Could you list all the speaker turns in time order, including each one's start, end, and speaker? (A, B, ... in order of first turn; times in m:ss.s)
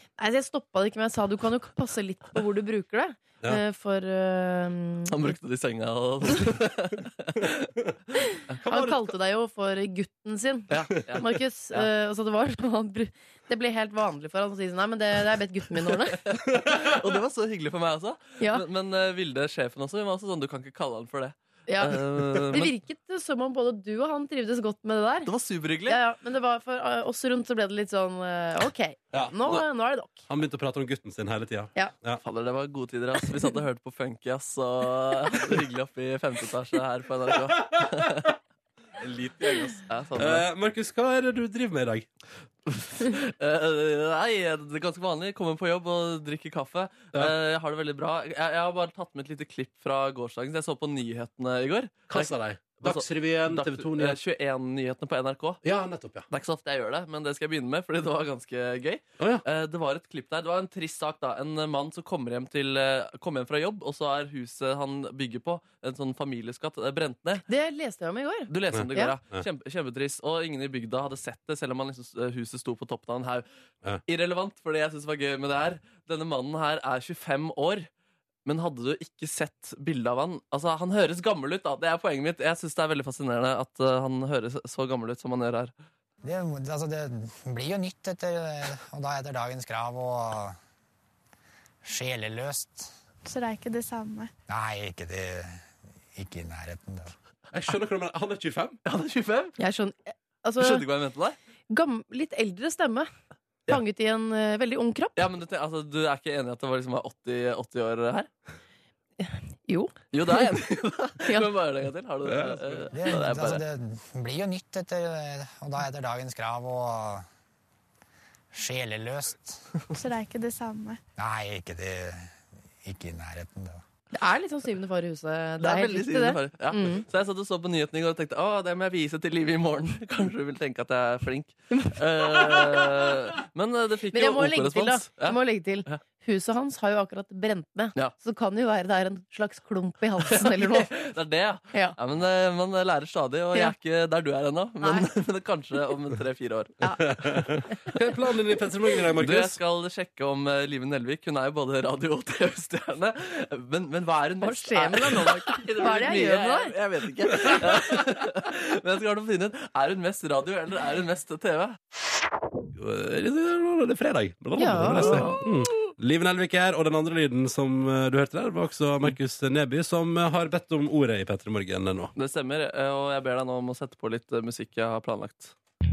0:00.2-0:05.3 A
0:05.1-0:07.7 B
0:08.6-0:09.1 C
0:08.6-0:16.2 A
0:10.7-0:11.9 B
0:16.2-0:22.7 B
0:16.5-0:16.8 C
0:21.7-0:25.3 A
0:25.2-0:26.0 B
0:25.9-0:30.2 A
0:29.1-0:29.6 C
0:30.3-0:32.2 C
0:32.2-0:38.4 B
0:37.6-0:38.2 C
0:39.0-0:42.1 C
0:39.9-0:40.4 B
0:42.7-0:55.6 B
0:52.1-0:54.2 C
0:55.6-0:56.2 C
0:56.3-1:07.4 B
1:07.5-1:09.1 A
1:08.5-1:13.4 B
1:08.7-1:09.4 C
1:14.1-1:17.9 B
1:18.4-1:25.7 B
1:26.2-1:30.6 D
1:31.8-1:32.9 D
1:33.2-1:34.3 E
1:34.5-1:37.1 D
1:37.5-1:38.8 C
1:38.8-1:39.6 B
1:39.6-1:40.8 A
1:40.6-1:41.4 B
1:41.7-1:43.1 A
1:43.7-1:45.2 A
1:45.2-1:48.3 B
1:49.2-1:50.4 A
1:50.1-1:53.6 B
1:52.3-1:52.9 C
1:52.9-1:57.2 D
1:58.5-1:59.6 D
1:59.9-2:01.0 E
2:01.2-2:03.8 D
2:04.1-2:07.0 A
2:05.6-2:16.0 B
2:14.1-2:20.9 A
2:20.3-2:26.8 B
2:26.8-2:27.1 A
2:27.0-2:29.6 C
2:29.2-2:41.8 B
2:34.4-2:36.7 A
2:42.7-2:52.1 C
2:44.6-2:45.4 A
2:52.2-2:55.5 B